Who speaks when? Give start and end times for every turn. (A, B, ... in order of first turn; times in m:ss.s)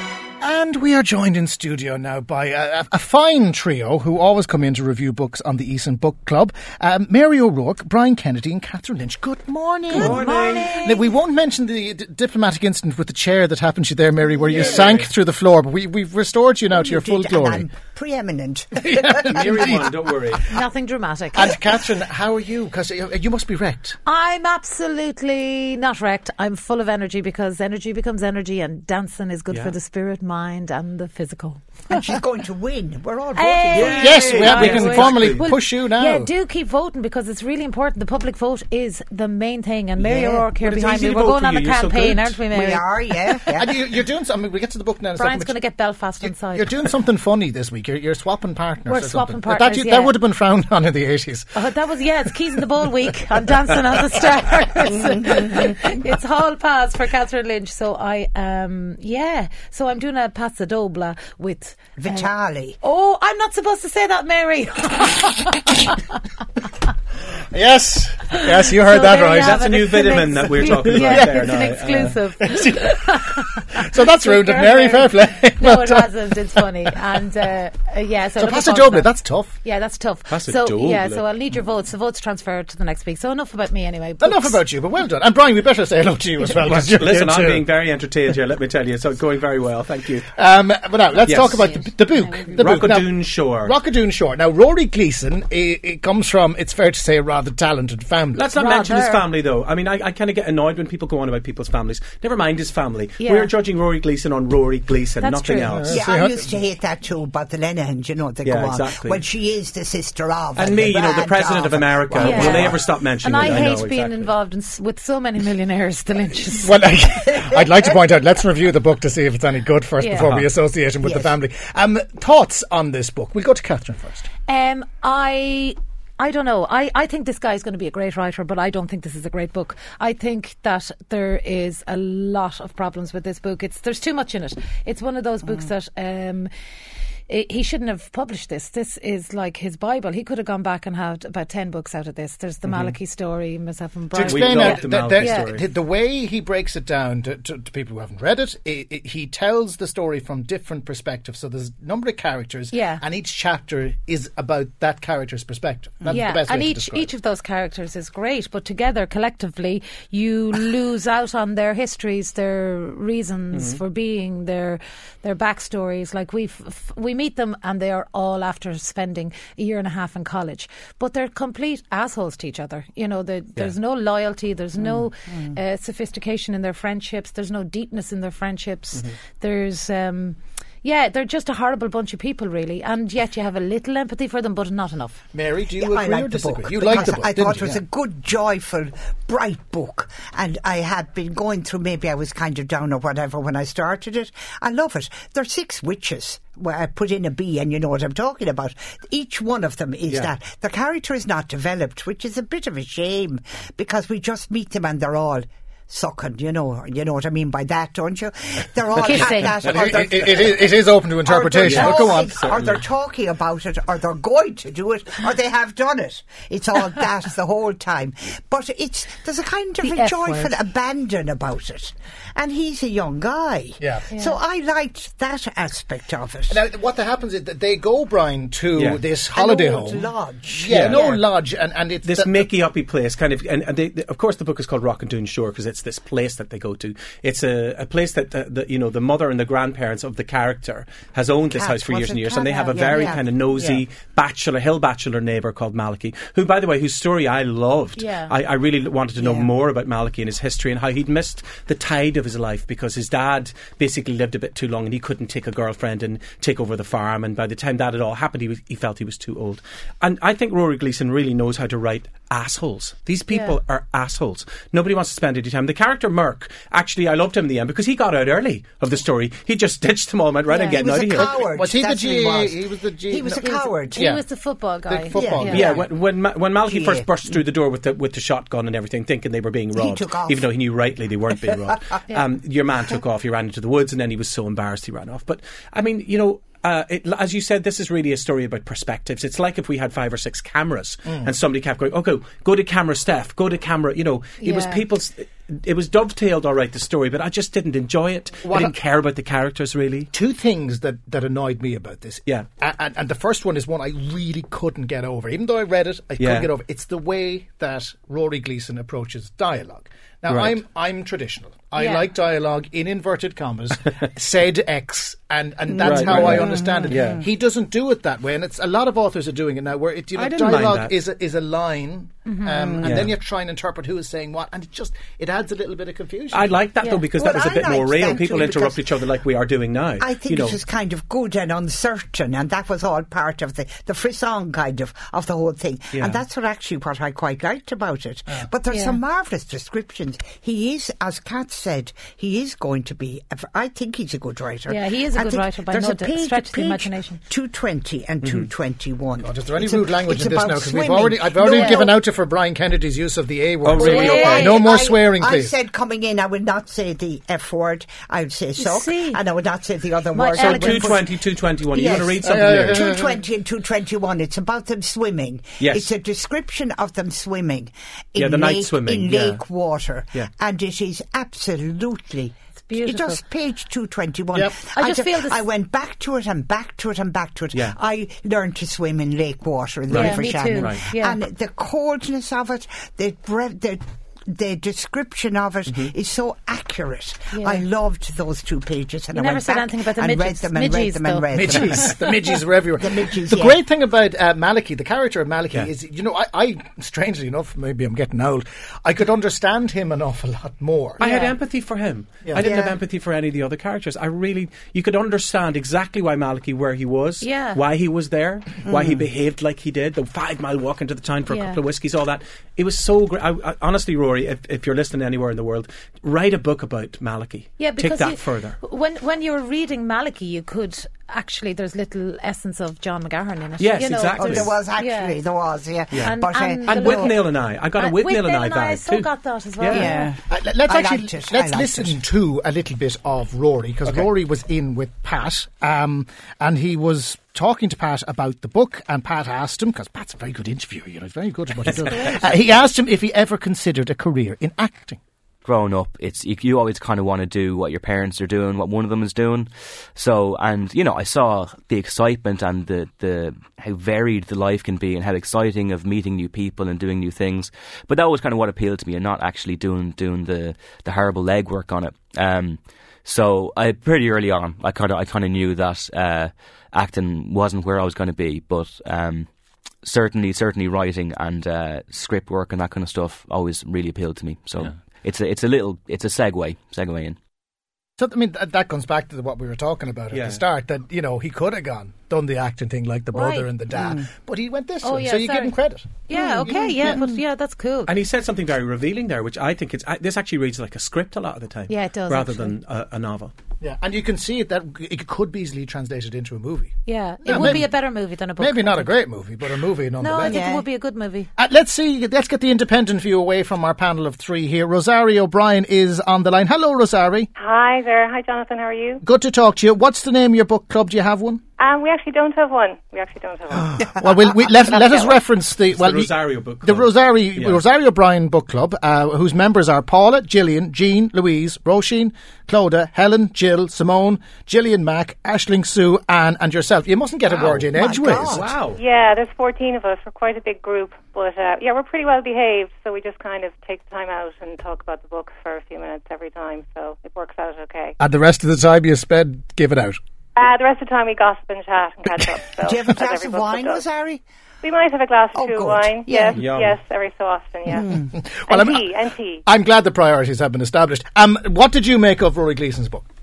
0:00.4-0:17.7 A
0:09.9-0:10.7 B
0:10.0-0:10.9 C
0:14.5-0:15.1 B
0:16.7-0:19.7 D
0:18.8-0:19.9 A
0:19.3-0:20.4 B
0:20.5-0:21.6 C
0:21.3-0:24.0 A
0:24.0-0:32.0 C
0:31.9-0:34.6 D
0:33.3-0:43.3 C
0:33.7-0:35.4 B
0:33.9-0:36.3 A
0:40.0-0:40.5 D
0:40.6-0:42.4 B
0:42.5-0:43.7 D
0:43.5-0:45.6 A
0:45.2-0:46.8 C
0:46.2-0:51.6 A
0:48.8-0:50.1 C
0:51.5-1:02.3 C
1:02.0-1:02.8 D
1:02.8-1:06.0 C
1:07.5-1:09.7 A
1:08.8-1:24.6 C
1:09.4-1:12.2 B
1:10.6-1:11.5 A
1:12.4-1:17.2 A
1:18.4-1:19.6 A
1:20.3-1:21.2 B
1:24.2-1:27.7 A
1:26.6-1:30.3 B
1:30.3-1:38.5 A
1:31.2-1:31.6 B
1:31.3-1:32.6 C
1:32.6-1:33.7 B
1:38.3-1:45.9 B
1:38.6-1:39.3 C
1:43.2-1:43.5 C
1:45.2-1:45.8 C
1:45.6-1:46.5 A
1:45.9-1:52.8 D
1:48.4-1:49.2 B
1:50.5-1:54.3 B
1:52.2-1:56.7 C
1:56.5-2:04.3 A
2:00.0-2:00.4 C
2:01.0-2:01.3 D
2:04.5-2:16.5 C
2:17.3-2:25.5 C
2:22.7-2:22.9 B
2:24.1-2:37.1 A
2:24.2-2:25.6 B
2:32.7-2:33.0 C
2:36.1-3:05.2 C
2:43.5-2:43.8 B
3:05.3-3:07.8 A
3:05.8-3:30.2 D
3:29.0-3:29.5 C
3:29.5-3:32.4 A
3:29.8-3:30.6 B
3:31.2-3:46.6 D
3:31.6-3:32.8 B
3:39.8-3:40.5 C
3:43.8-3:44.1 A
3:44.1-3:44.4 C
3:46.5-3:52.5 A
3:48.8-3:49.0 B
3:49.3-3:51.2 D
3:50.7-3:51.2 B
3:52.0-4:31.3 B
4:01.5-4:03.8 D
4:02.5-4:03.2 C
4:08.0-4:08.3 C
4:09.2-4:09.5 D
4:23.3-4:23.6 C
4:30.5-4:30.8 C
4:30.6-4:34.0 D
4:31.1-4:35.8 A
4:33.3-4:35.7 C
4:35.1-4:35.9 D
4:35.5-5:00.1 B
4:36.6-4:37.1 D
4:39.8-4:40.5 D
4:54.4-4:54.8 C
4:58.4-4:58.8 A
5:00.1-5:26.6 A
5:06.2-5:06.5 B
5:10.3-5:10.6 B
5:11.7-5:12.1 C
5:15.7-5:17.1 D
5:15.8-5:17.2 B
5:20.1-5:20.9 B
5:22.3-5:22.5 C
5:22.7-5:23.0 D
5:22.8-5:23.1 B
5:26.3-5:30.6 B
5:27.1-5:28.9 D
5:30.0-5:52.0 D
5:35.9-5:36.2 B
5:38.7-5:39.0 C
5:44.7-5:47.2 C
5:48.2-5:48.5 B
5:49.2-5:55.5 A
5:51.5-5:51.8 C
5:53.6-5:54.5 B
5:53.8-6:01.1 D
5:53.8-5:54.6 C
5:58.6-5:59.2 C
6:00.1-6:01.0 C
6:00.3-6:02.8 B
6:01.7-6:31.9 D
6:02.2-6:03.2 A
6:05.6-6:05.9 B
6:08.2-6:09.4 B
6:12.6-6:13.2 C
6:14.6-6:15.4 C
6:19.9-6:20.8 B
6:19.9-6:21.2 C
6:25.7-6:25.9 B
6:27.3-6:27.6 C
6:29.1-6:32.1 C
6:31.3-6:41.0 A
6:32.8-6:33.6 D
6:41.0-6:41.4 C
6:41.0-6:58.6 B
6:42.3-6:42.8 D
6:47.2-6:47.6 C
6:51.3-6:51.6 C
6:57.6-7:05.2 C
7:03.6-7:04.5 B
7:04.2-7:07.1 D
7:05.9-7:09.9 B
7:05.9-7:10.1 C
7:09.7-7:12.0 D
7:10.3-7:25.0 A
7:21.6-7:22.3 B
7:25.4-7:49.3 E
7:49.8-7:57.2 E
7:58.0-8:05.8 A
8:00.1-8:00.4 B
8:03.1-8:03.5 C
8:03.8-8:04.0 D
8:04.8-8:05.5 C
8:06.1-8:07.9 C
8:06.1-8:07.2 D
8:06.4-8:07.0 A
8:07.9-8:13.3 B
8:11.7-8:12.5 C
8:13.6-8:16.7 A
8:16.8-8:19.0 C
8:17.2-8:17.7 A
8:18.4-8:20.6 A
8:20.0-8:21.3 C
8:20.2-8:20.6 D
8:21.4-8:27.3 A
8:27.4-8:29.0 F
8:29.0-8:31.4 A
8:31.6-8:35.2 F
8:33.8-8:48.5 A
8:35.7-8:37.6 B
8:47.3-8:47.6 B
8:47.4-8:48.6 D
8:48.2-8:48.8 B
8:48.7-8:58.0 F
8:58.0-9:00.0 A
9:00.4-9:03.8 F
9:02.6-9:04.2 D
9:04.6-9:09.4 F
9:05.3-9:06.4 D
9:06.3-9:06.8 B
9:07.7-9:08.0 D
9:08.1-9:08.9 A
9:09.4-9:13.0 A